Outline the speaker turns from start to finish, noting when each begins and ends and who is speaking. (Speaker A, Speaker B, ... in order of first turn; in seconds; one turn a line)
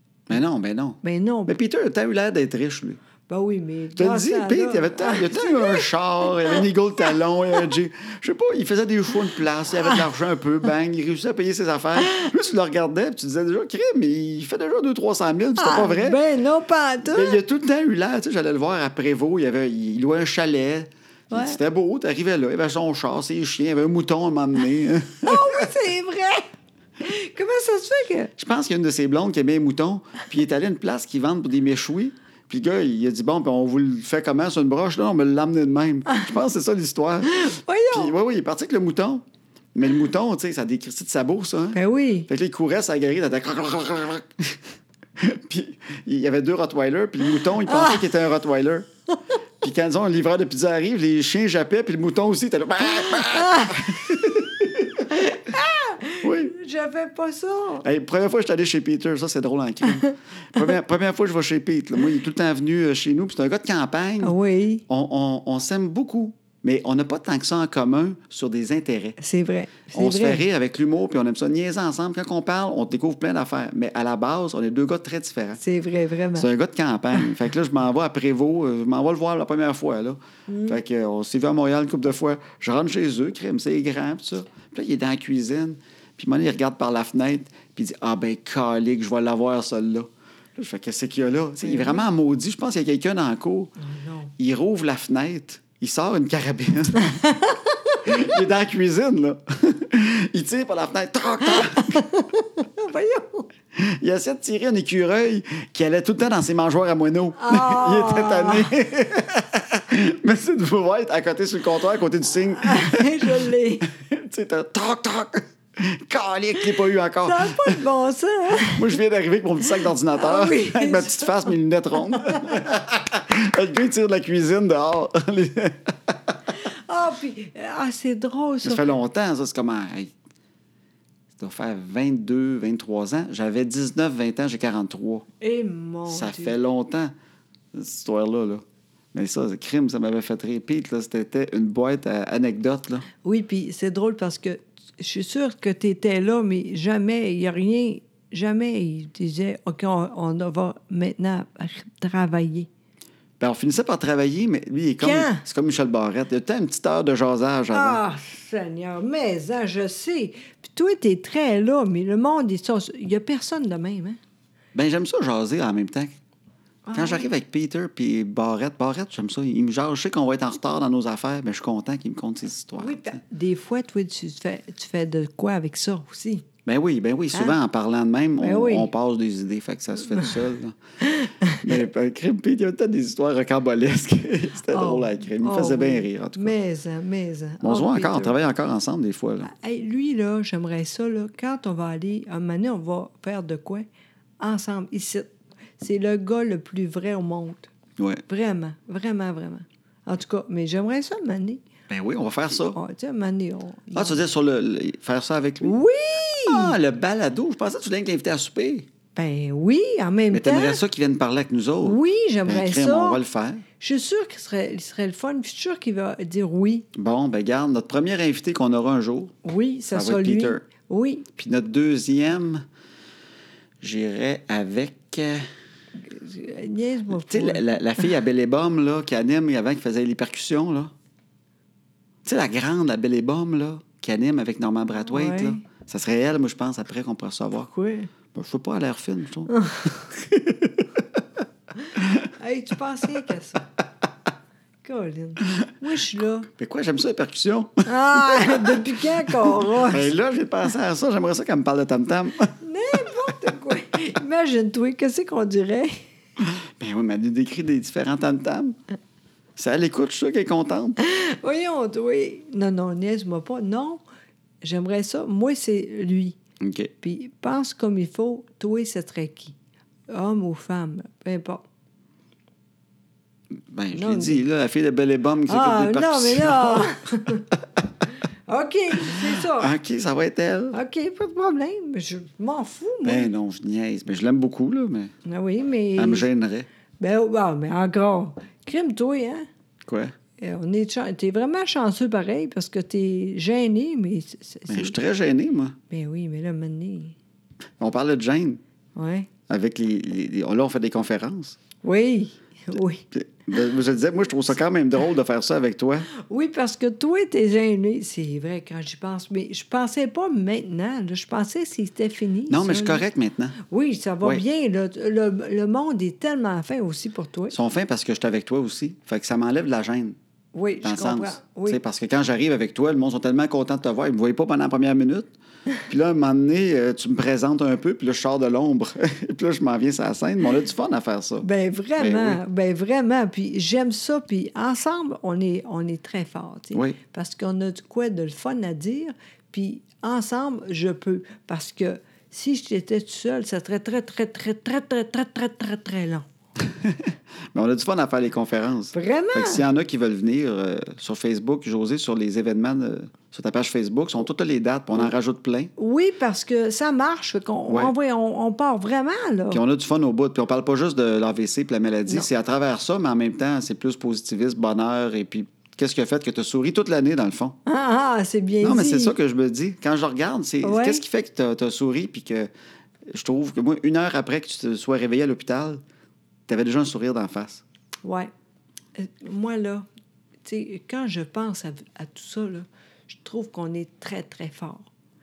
Speaker A: 0.3-3.0
Speaker B: 1.0-1.5
Speaker B: 3.3-6.7
Speaker A: 4.0-16.2
Speaker B: 15.6-17.4
Speaker A: 17.1-25.7
Speaker B: 21.3-21.6
Speaker B: 25.2-26.5
Speaker B: 27.0-28.3
Speaker A: 28.4-39.2
Speaker B: 37.3-38.1
Speaker A: 39.7-44.6
Speaker B: 41.7-42.3
Speaker A: 45.2-48.9
Speaker B: 47.5-48.1
Speaker A: 49.6-55.1
Speaker B: 53.2-53.9
Speaker B: 55.1-57.8
Speaker A: 56.2-56.5
Speaker A: 57.8-64.3
Speaker B: 64.2-64.8
Speaker A: 64.9-69.2
Speaker B: 69.2-70.4
Speaker A: 69.9-75.6
Speaker B: 75.6-76.5
Speaker A: 76.3-93.7
Speaker B: 80.5-80.8
Speaker B: 91.6-92.0
Speaker B: 93.8-94.3
Speaker A: 94.4-97.2
Speaker B: 97.1-98.2
Speaker A: 98.0-102.0
Speaker B: 101.4-103.5
Speaker A: 103.7-117.8
Speaker B: 107.4-108.8
Speaker B: 112.5-113.8
Speaker B: 116.8-119.0
Speaker A: 118.6-126.3
Speaker B: 119.8-122.6
Speaker B: 126.6-128.8
Speaker A: 128.6-130.1
Speaker A: 131.4-135.3
Speaker B: 135.4-136.5
Speaker A: 136.1-137.1
Speaker A: 137.7-143.1
Speaker B: 143.2-152.7
Speaker A: 153.4-158.0
Speaker B: 155.0-155.4
Speaker B: 157.7-164.2
Speaker A: 164.7-166.2
Speaker B: 166.8-167.3
Speaker A: 166.9-173.2
Speaker B: 172.8-176.4
Speaker A: 176.7-180.8
Speaker B: 178.4-178.9
Speaker B: 181.2-181.8
Speaker A: 181.5-186.5
Speaker B: 184.7-188.3
Speaker A: 187.6-189.5
Speaker B: 189.4-193.9
Speaker B: 194.4-197.7
Speaker A: 198.0-198.2
Speaker B: 198.3-201.6
Speaker A: 201.9-202.8
Speaker B: 202.7-204.2
Speaker A: 203.9-205.8
Speaker B: 205.6-206.8
Speaker A: 206.4-208.8
Speaker B: 209.1-210.8
Speaker A: 210.3-213.6
Speaker B: 211.8-213.2
Speaker B: 213.8-216.9
Speaker A: 216.9-219.3
Speaker B: 219.4-221.3
Speaker A: 219.9-220.6
Speaker A: 221.4-222.6
Speaker A: 223.8-225.5
Speaker B: 226.0-228.1
Speaker A: 227.1-230.9
Speaker A: 232.2-237.7
Speaker B: 235.0-235.6
Speaker B: 237.7-238.1
Speaker A: 238.3-240.8
Speaker B: 239.5-240.0
Speaker B: 241.9-243.7
Speaker A: 241.9-242.3
Speaker B: 244.8-246.5
Speaker A: 246.5-252.6
Speaker B: 247.9-250.1
Speaker B: 252.6-256.0
Speaker A: 256.4-258.8
Speaker A: 259.6-261.0
Speaker B: 261.0-264.0
Speaker B: 264.6-266.4
Speaker A: 266.6-266.9
Speaker B: 267.0-269.6
Speaker B: 270.1-271.6
Speaker A: 273.7-277.0
Speaker B: 273.9-274.4
Speaker B: 275.5-277.4
Speaker B: 278.4-279.7
Speaker A: 279.0-280.8
Speaker B: 280.7-283.3
Speaker A: 283.0-285.1
Speaker B: 285.2-286.3
Speaker A: 285.9-286.7
Speaker B: 287.0-289.5
Speaker A: 289.9-290.1
Speaker B: 290.4-295.0
Speaker A: 294.7-295.8
Speaker B: 295.9-297.1
Speaker A: 297.8-298.6
Speaker B: 298.9-299.3
Speaker A: 299.5-301.6
Speaker B: 301.8-303.0
Speaker A: 303.1-306.1
Speaker B: 306.1-313.0
Speaker A: 312.5-313.6
Speaker B: 313.6-317.5
Speaker A: 317.5-320.1
Speaker B: 320.5-321.8
Speaker A: 320.8-325.3
Speaker A: 325.8-331.5
Speaker B: 331.4-346.3
Speaker A: 332.0-332.4
Speaker A: 346.8-355.7
Speaker B: 348.9-349.6
Speaker B: 355.8-359.6
Speaker A: 357.7-357.9
Speaker A: 359.5-367.6
Speaker B: 367.6-369.1
Speaker A: 368.6-372.5
Speaker B: 370.6-371.0
Speaker A: 373.1-375.8
Speaker A: 376.5-377.6
Speaker B: 378.0-378.3
Speaker B: 378.9-379.9
Speaker B: 380.4-384.9